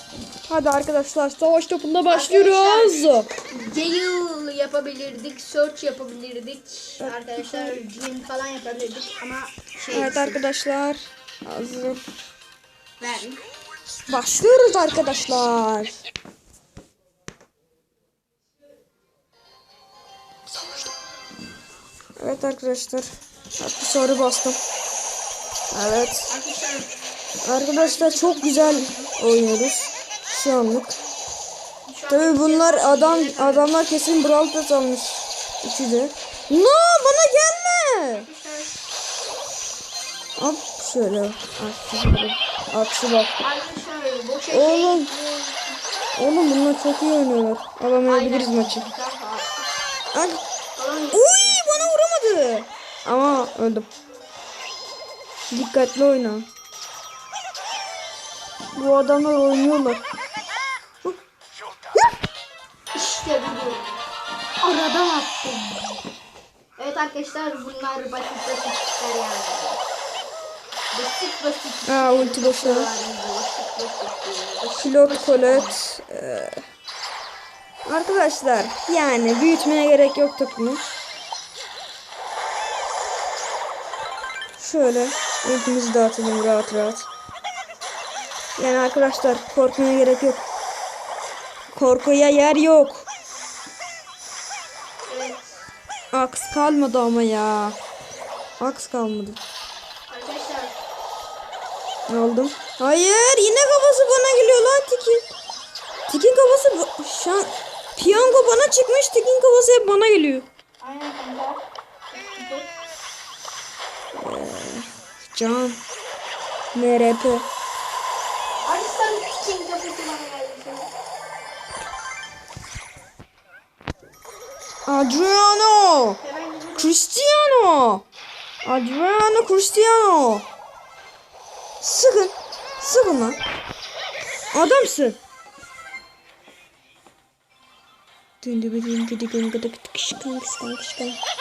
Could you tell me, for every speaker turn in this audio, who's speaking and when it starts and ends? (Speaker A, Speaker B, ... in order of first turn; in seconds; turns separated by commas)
Speaker A: 0.5-3.3, Speaker B: 2.1-10.4, Speaker A: 7.0-7.8, Speaker A: 9.9-12.1, Speaker B: 13.0-13.4, Speaker A: 14.1-16.0, Speaker A: 20.5-20.9, Speaker A: 22.2-24.6, Speaker A: 25.7-26.3, Speaker B: 26.3-26.9, Speaker A: 27.4-31.0, Speaker B: 27.7-29.1, Speaker B: 31.9-33.7, Speaker A: 32.1-38.3, Speaker B: 38.2-38.7, Speaker A: 40.4-43.3, Speaker B: 43.4-45.8, Speaker A: 44.5-45.1, Speaker A: 46.1-48.9, Speaker B: 48.0-49.6, Speaker A: 50.1-50.4, Speaker B: 50.8-51.8, Speaker A: 51.1-53.9, Speaker A: 55.5-56.5, Speaker A: 58.8-60.0, Speaker B: 62.9-64.0, Speaker B: 64.6-66.0, Speaker B: 66.8-69.8, Speaker B: 70.9-75.8, Speaker A: 71.9-72.9, Speaker A: 74.8-76.6, Speaker A: 77.8-80.9, Speaker A: 84.6-87.1, Speaker A: 88.6-90.4, Speaker A: 91.7-93.0, Speaker B: 95.1-95.6, Speaker A: 96.1-97.8, Speaker A: 98.6-99.4, Speaker B: 100.1-100.8, Speaker A: 102.1-105.2, Speaker A: 106.1-110.5, Speaker B: 108.0-108.4, Speaker B: 110.8-111.6, Speaker B: 112.1-112.7, Speaker A: 114.1-115.8, Speaker A: 116.7-117.5, Speaker B: 118.7-120.9, Speaker A: 124.8-126.2, Speaker B: 126.2-126.9, Speaker A: 126.8-128.0, Speaker A: 128.6-130.5, Speaker A: 131.8-133.4, Speaker A: 134.5-135.2, Speaker A: 138.4-141.2